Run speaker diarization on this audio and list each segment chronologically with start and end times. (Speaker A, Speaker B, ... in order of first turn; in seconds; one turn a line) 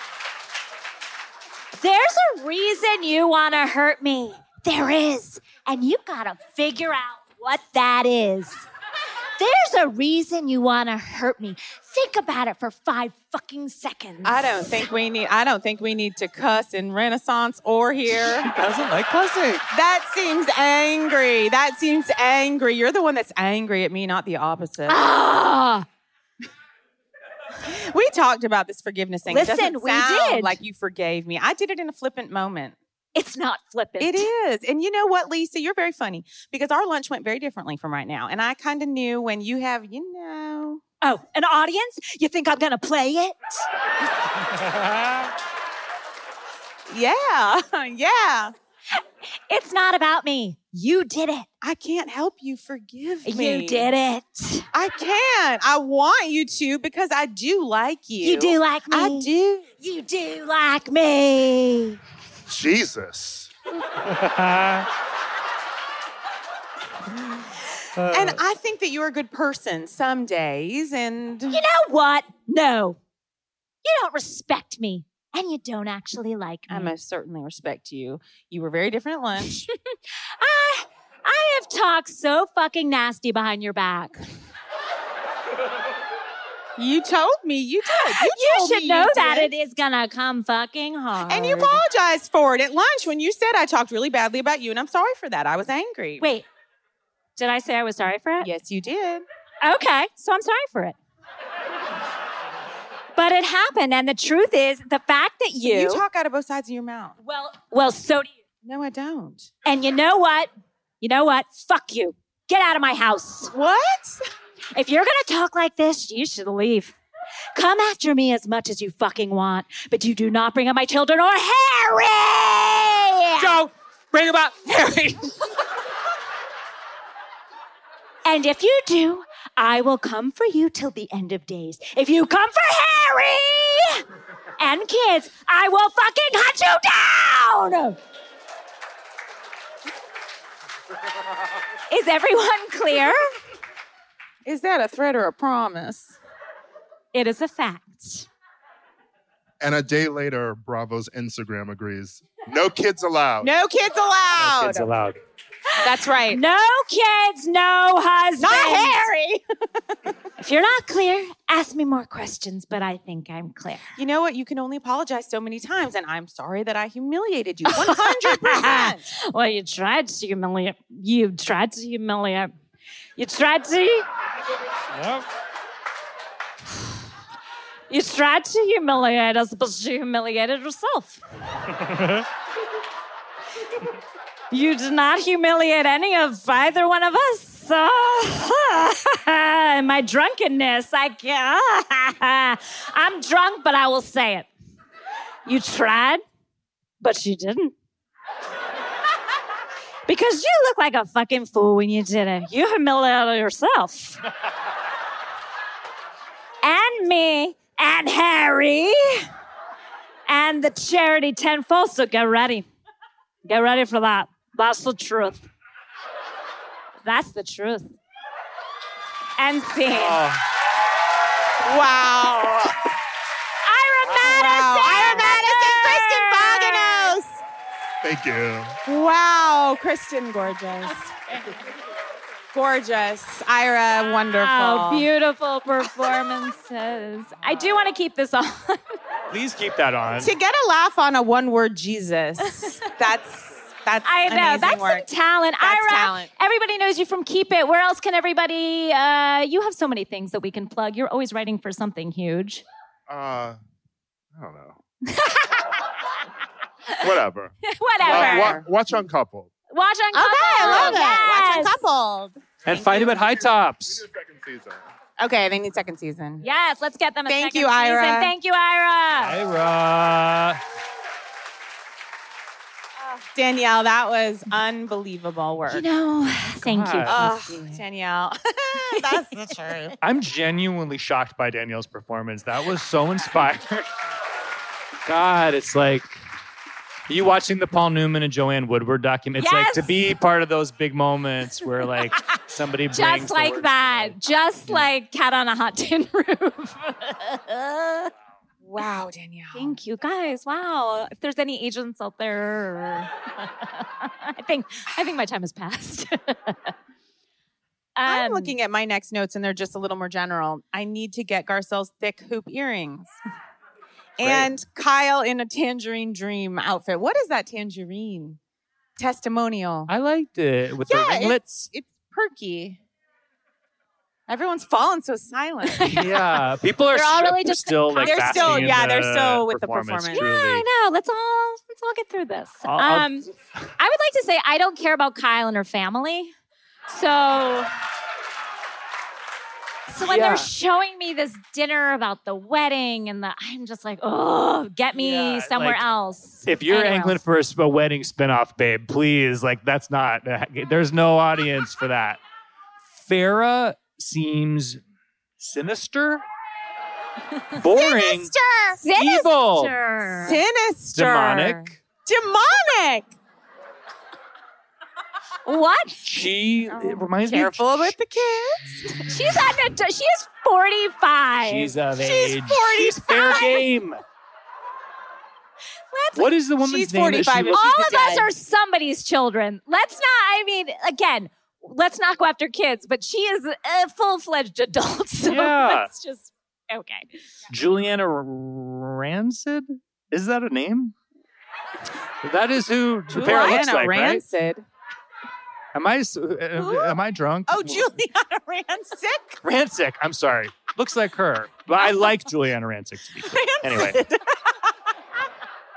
Speaker A: 1.7-8.7
Speaker A: 9.4-14.8
Speaker B: 14.2-18.5
Speaker C: 18.1-19.6
Speaker B: 19.7-25.0
Speaker A: 24.9-25.9
Speaker B: 27.6-32.8
Speaker A: 29.3-30.6
Speaker A: 33.1-34.3
Speaker B: 34.0-40.8
Speaker A: 41.0-43.6
Speaker B: 46.9-48.5
Speaker A: 48.9-51.5
Speaker B: 51.6-53.9
Speaker A: 53.3-54.7
Speaker B: 54.7-59.7
Speaker A: 58.2-59.3
Speaker A: 59.8-62.0
Speaker D: 62.5-63.5
Speaker C: 63.9-64.9
Speaker C: 68.0-68.4
Speaker B: 68.1-71.6
Speaker A: 71.5-73.0
Speaker A: 73.8-76.9
Speaker B: 76.7-79.6
Speaker A: 80.4-84.2
Speaker B: 86.8-89.5
Speaker A: 87.9-91.8
Speaker B: 91.3-96.2
Speaker A: 96.2-96.5
Speaker A: 97.4-98.5
Speaker B: 98.4-99.2
Speaker A: 99.6-101.0
Speaker A: 103.2-106.0
Speaker B: 105.6-107.2
Speaker A: 107.2-108.3
Speaker B: 108.6-109.5
Speaker A: 109.7-110.5
Speaker A: 111.0-113.5
Speaker B: 113.5-114.2
Speaker A: 114.7-117.0
Speaker A: 117.5-123.6
Speaker C: 124.1-124.9
Speaker A: 128.2-134.0
Speaker A: 134.6-138.0
Speaker A: 141.9-143.2
Speaker B: 144.4-146.2
Speaker A: 147.1-148.3
Speaker D: 149.6-153.5
Speaker B: 153.4-154.9
Speaker C: 154.4-155.2
Speaker A: 155.7-159.1
Speaker B: 155.8-156.4
Speaker B: 158.4-160.0
Speaker A: 160.4-163.9
Speaker B: 164.0-169.1
Speaker A: 167.7-172.5
Speaker A: 173.2-174.1
Speaker C: 174.9-175.2
Speaker A: 177.9-181.2
Speaker C: 181.9-182.2
Speaker A: 184.5-194.5
Speaker A: 195.5-196.2
Speaker A: 197.0-197.8
Speaker A: 200.1-204.2
Speaker A: 206.6-209.3
Speaker A: 210.3-212.7
Speaker A: 213.5-215.5
Speaker A: 217.1-217.9
Speaker A: 219.4-220.2
Speaker C: 219.9-220.4
Speaker B: 221.6-222.8
Speaker A: 223.7-227.2
Speaker B: 224.1-227.4
Speaker D: 228.0-228.8
Speaker B: 228.9-231.5
Speaker B: 232.5-235.1
Speaker A: 234.4-238.8
Speaker C: 239.3-240.3
Speaker B: 240.2-245.1
Speaker A: 244.1-252.6
Speaker B: 245.6-246.3
Speaker D: 253.1-253.6
Speaker D: 254.3-254.8
Speaker A: 255.1-255.8
Speaker D: 257.0-259.5
Speaker A: 257.7-258.6
Speaker B: 258.0-258.7
Speaker A: 259.7-261.8
Speaker B: 260.1-263.1
Speaker C: 260.6-261.1
Speaker C: 262.6-264.0
Speaker D: 263.8-264.9
Speaker B: 265.2-266.4
Speaker A: 266.4-269.4
Speaker B: 267.3-268.3
Speaker C: 269.1-270.6
Speaker B: 273.4-275.8
Speaker A: 275.7-277.7
Speaker C: 276.5-277.4
Speaker B: 277.1-280.0
Speaker C: 280.0-283.9
Speaker C: 285.1-286.2
Speaker C: 287.1-294.8
Speaker A: 289.4-289.9
Speaker A: 292.9-298.1
Speaker B: 298.6-299.8
Speaker A: 299.5-303.1
Speaker A: 303.8-306.7
Speaker A: 308.0-308.5
Speaker B: 308.1-313.1
Speaker B: 314.2-318.4
Speaker C: 314.2-314.5
Speaker B: 319.0-319.9
Speaker C: 319.9-321.7
Speaker B: 320.9-322.8
Speaker B: 324.3-326.0
Speaker A: 325.7-326.4
Speaker C: 325.9-330.6
Speaker A: 326.9-328.8
Speaker B: 328.0-330.3
Speaker A: 330.1-336.3
Speaker C: 332.6-333.7
Speaker A: 336.9-337.7
Speaker A: 339.9-347.2
Speaker C: 340.0-340.5
Speaker C: 344.9-345.9
Speaker C: 346.4-352.2
Speaker C: 352.9-354.8
Speaker C: 355.4-356.2
Speaker C: 357.6-358.3
Speaker B: 357.6-358.8
Speaker A: 358.8-360.4
Speaker C: 358.9-359.7
Speaker B: 360.2-363.1
Speaker C: 360.9-361.8
Speaker A: 365.4-366.0
Speaker C: 366.0-368.0
Speaker B: 366.7-368.6
Speaker A: 368.9-371.7
Speaker C: 371.4-374.0
Speaker B: 372.0-373.6
Speaker A: 375.9-376.3
Speaker C: 376.1-377.6
Speaker B: 376.6-378.3
Speaker A: 377.5-387.1
Speaker C: 385.3-385.9
Speaker C: 387.5-390.9
Speaker C: 392.2-394.2
Speaker B: 393.1-394.6
Speaker C: 395.7-397.9
Speaker B: 396.6-399.4
Speaker C: 399.4-404.0
Speaker B: 403.2-404.6